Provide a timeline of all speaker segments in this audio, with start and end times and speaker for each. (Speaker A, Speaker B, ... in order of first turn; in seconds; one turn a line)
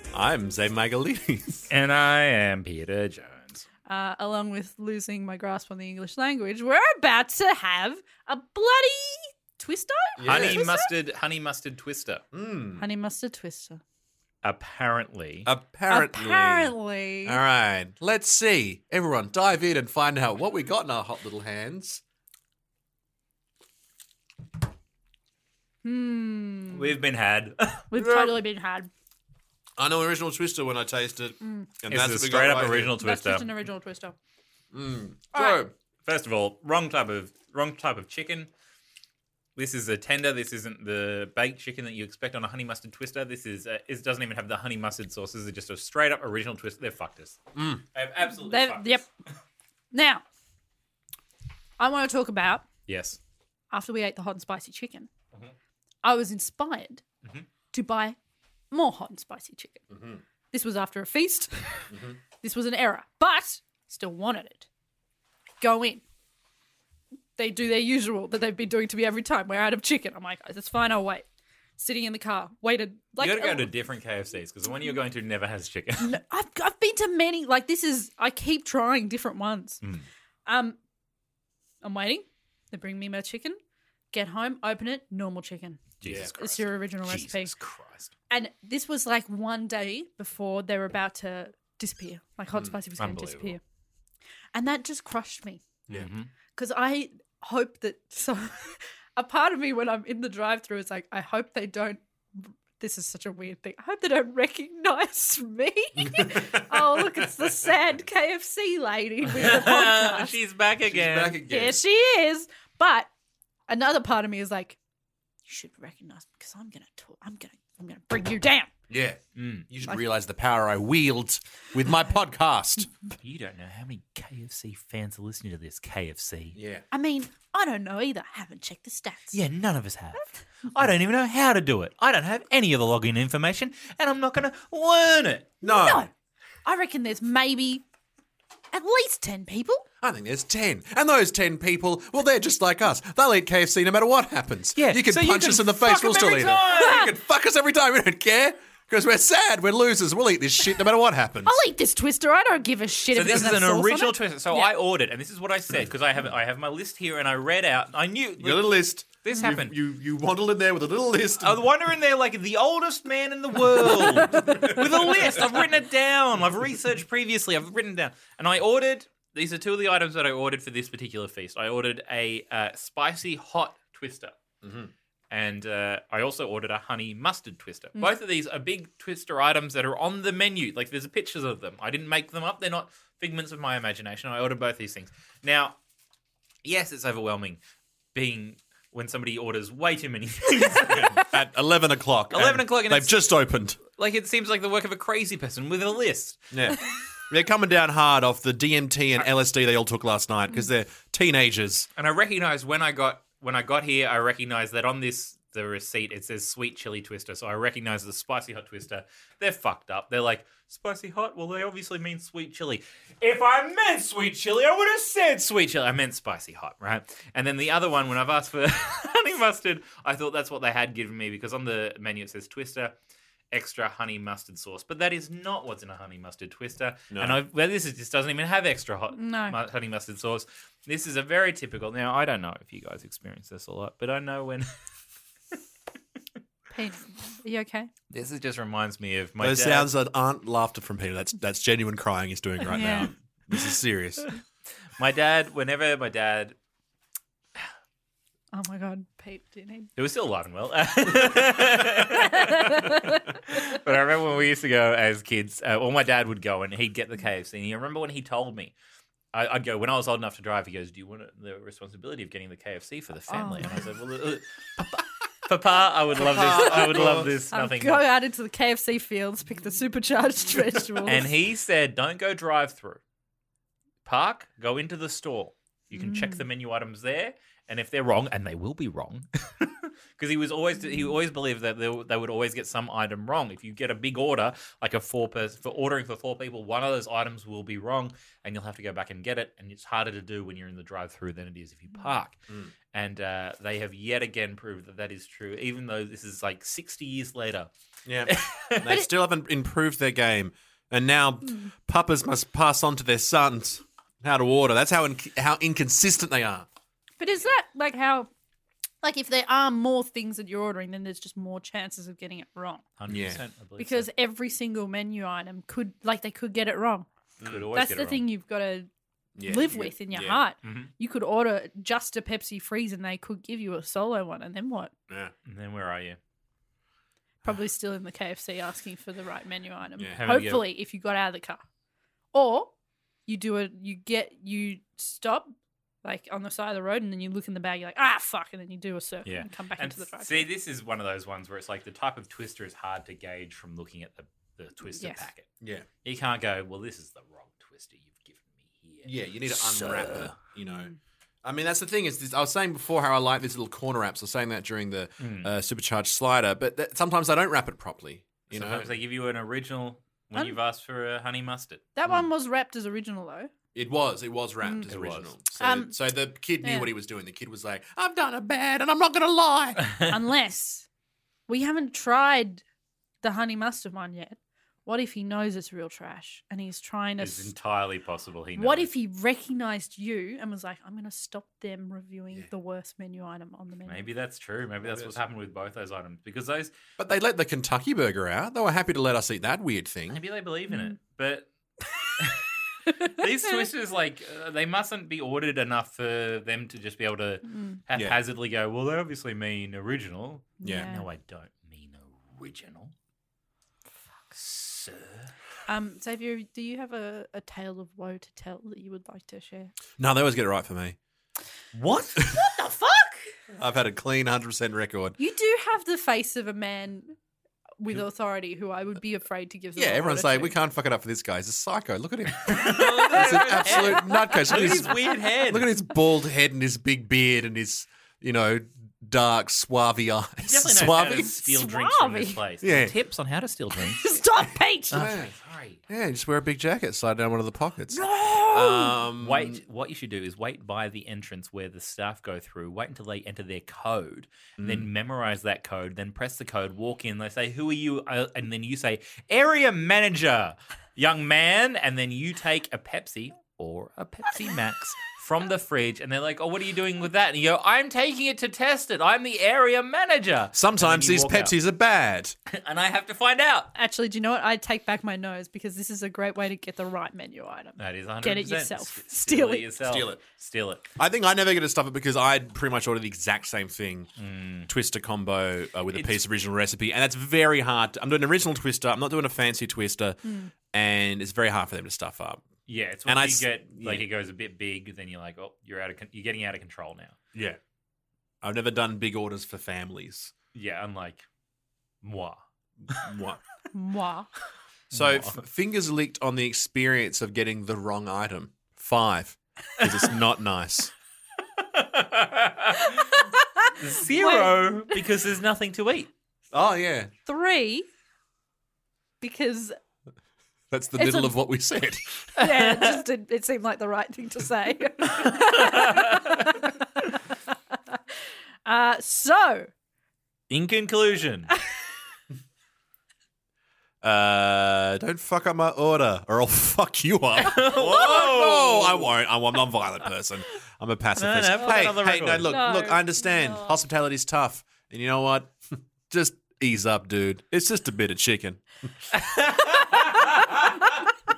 Speaker A: 0.1-1.7
Speaker B: 1.7-3.6
Speaker C: 3.9-10.9
Speaker A: 10.2-10.7
Speaker B: 10.2-12.2
Speaker A: 12.3-12.8
Speaker C: 12.8-13.8
Speaker B: 14.4-15.5
Speaker A: 15.4-22.0
Speaker C: 15.9-17.4
Speaker C: 25.8-26.9
Speaker B: 26.7-27.9
Speaker C: 27.9-28.9
Speaker A: 27.9-28.3
Speaker A: 29.8-33.0
Speaker C: 31.4-31.7
Speaker B: 31.9-33.5
Speaker C: 33.0-34.1
Speaker A: 34.7-35.7
Speaker C: 35.3-35.6
Speaker B: 36.0-38.5
Speaker B: 39.5-47.4
Speaker A: 47.5-47.8
Speaker B: 47.9-49.1
Speaker C: 48.2-49.0
Speaker C: 49.9-50.2
Speaker C: 51.8-52.6
Speaker B: 52.9-53.2
Speaker C: 53.7-55.1
Speaker C: 56.0-57.0
Speaker C: 57.7-58.2
Speaker C: 58.7-59.8
Speaker A: 59.9-60.2
Speaker C: 60.5-64.7
Speaker A: 61.9-62.2
Speaker C: 65.6-66.0
Speaker C: 67.4-71.2
Speaker C: 71.8-73.7
Speaker B: 73.2-76.2
Speaker C: 76.0-79.8
Speaker C: 80.5-80.8
Speaker C: 81.8-83.6
Speaker C: 84.1-87.5
Speaker B: 86.0-88.1
Speaker A: 86.0-86.3
Speaker C: 88.3-93.6
Speaker B: 93.0-93.6
Speaker C: 94.5-95.6
Speaker B: 95.9-96.3
Speaker C: 96.5-110.3
Speaker A: 106.2-107.0
Speaker B: 109.2-111.4
Speaker A: 110.9-111.8
Speaker C: 111.4-113.1
Speaker C: 113.7-114.8
Speaker C: 115.5-118.7
Speaker A: 118.9-122.9
Speaker B: 119.3-119.7
Speaker B: 123.2-126.6
Speaker A: 126.5-126.8
Speaker C: 126.9-129.4
Speaker B: 129.3-135.5
Speaker A: 135.6-136.1
Speaker C: 135.6-136.1
Speaker C: 136.6-137.8
Speaker C: 138.7-139.8
Speaker A: 140.0-151.5
Speaker B: 144.8-147.1
Speaker C: 146.6-147.1
Speaker C: 151.4-154.7
Speaker B: 153.1-158.7
Speaker A: 158.4-161.6
Speaker B: 159.2-159.7
Speaker B: 161.4-174.3
Speaker C: 163.8-164.7
Speaker A: 164.5-164.8
Speaker A: 174.6-174.9
Speaker B: 175.3-185.8
Speaker B: 186.6-187.6
Speaker B: 188.1-191.3
Speaker A: 190.9-193.8
Speaker B: 192.3-193.2
Speaker B: 193.9-196.6
Speaker A: 196.5-201.9
Speaker B: 201.9-222.9
Speaker B: 223.5-234.7
Speaker A: 227.1-227.4
Speaker C: 229.1-229.6
Speaker C: 236.7-237.9
Speaker B: 238.1-239.9
Speaker A: 239.4-244.2
Speaker C: 242.7-243.1
Speaker B: 245.0-246.6
Speaker C: 248.5-249.9
Speaker B: 250.0-258.7
Speaker C: 251.8-253.6
Speaker B: 259.3-268.0
Speaker C: 263.3-263.8
Speaker A: 266.2-267.3
Speaker C: 266.3-271.3
Speaker B: 271.0-273.0
Speaker B: 274.0-292.4
Speaker C: 275.9-276.4
Speaker B: 292.9-297.7
Speaker A: 298.1-306.6
Speaker B: 298.2-298.9
Speaker C: 307.2-308.3
Speaker C: 309.0-312.9
Speaker B: 313.0-314.1
Speaker A: 313.1-313.4
Speaker C: 313.8-317.1
Speaker B: 317.4-318.2
Speaker A: 317.4-317.7
Speaker C: 317.7-318.9
Speaker A: 319.4-320.4
Speaker C: 319.4-324.9
Speaker B: 320.6-320.9
Speaker B: 325.4-326.2
Speaker C: 327.4-331.6
Speaker A: 330.0-330.2
Speaker B: 330.1-330.7
Speaker C: 332.3-332.7
Speaker C: 333.3-335.5
Speaker C: 336.0-340.5
Speaker B: 339.2-345.5
Speaker C: 344.9-345.3
Speaker A: 345.6-345.9
Speaker B: 346.0-350.3
Speaker A: 349.0-350.9
Speaker A: 351.4-358.9
Speaker B: 355.2-355.5
Speaker B: 358.5-361.9
Speaker C: 361.9-363.5
Speaker A: 363.7-369.8
Speaker C: 364.6-364.9
Speaker B: 364.9-365.3
Speaker C: 365.6-366.0
Speaker C: 366.6-366.9
Speaker C: 370.1-370.9
Speaker C: 371.5-372.6
Speaker C: 373.2-377.5
Speaker B: 377.2-378.9
Speaker C: 378.5-384.1
Speaker B: 383.9-386.7
Speaker A: 384.8-385.1
Speaker A: 387.0-390.2
Speaker B: 390.1-391.5
Speaker C: 390.7-390.9
Speaker B: 392.2-402.9
Speaker C: 397.5-397.8
Speaker A: 397.9-398.2
Speaker C: 400.6-401.1
Speaker A: 400.6-400.9
Speaker B: 404.3-405.3
Speaker C: 405.7-409.7
Speaker A: 410.0-411.0
Speaker B: 411.7-413.2
Speaker A: 413.6-415.2
Speaker C: 415.2-417.1
Speaker C: 417.8-420.5
Speaker A: 419.8-431.3
Speaker B: 422.4-425.7
Speaker C: 423.1-424.7
Speaker B: 430.4-434.2
Speaker C: 431.1-432.4
Speaker A: 432.6-432.9
Speaker C: 433.7-435.1
Speaker A: 434.9-435.3
Speaker B: 434.9-435.8
Speaker A: 435.9-439.6
Speaker C: 437.9-439.0
Speaker B: 439.2-461.5
Speaker A: 444.6-444.9
Speaker A: 460.5-462.3
Speaker B: 462.5-463.7
Speaker C: 463.7-469.7
Speaker B: 467.8-470.9
Speaker A: 469.8-470.2
Speaker A: 471.0-474.1
Speaker B: 474.2-474.7
Speaker A: 474.7-482.4
Speaker B: 475.9-476.2
Speaker B: 482.7-487.1
Speaker A: 483.1-484.1
Speaker A: 488.4-490.3
Speaker B: 490.5-491.2
Speaker B: 492.0-493.1
Speaker A: 492.9-493.4
Speaker C: 493.7-494.3
Speaker B: 494.9-495.4
Speaker A: 494.9-500.9
Speaker B: 501.6-503.0
Speaker C: 502.8-505.0
Speaker B: 503.7-506.1
Speaker A: 506.5-507.1
Speaker C: 507.2-507.9
Speaker C: 509.2-509.8
Speaker A: 510.7-512.2
Speaker C: 510.9-511.3
Speaker C: 512.4-517.3
Speaker B: 512.4-513.0
Speaker B: 515.0-516.6
Speaker C: 518.6-519.7
Speaker B: 520.5-521.5
Speaker A: 524.0-535.5
Speaker B: 527.4-529.1
Speaker B: 531.1-532.6
Speaker C: 532.4-533.8
Speaker A: 536.1-538.6
Speaker B: 539.1-540.5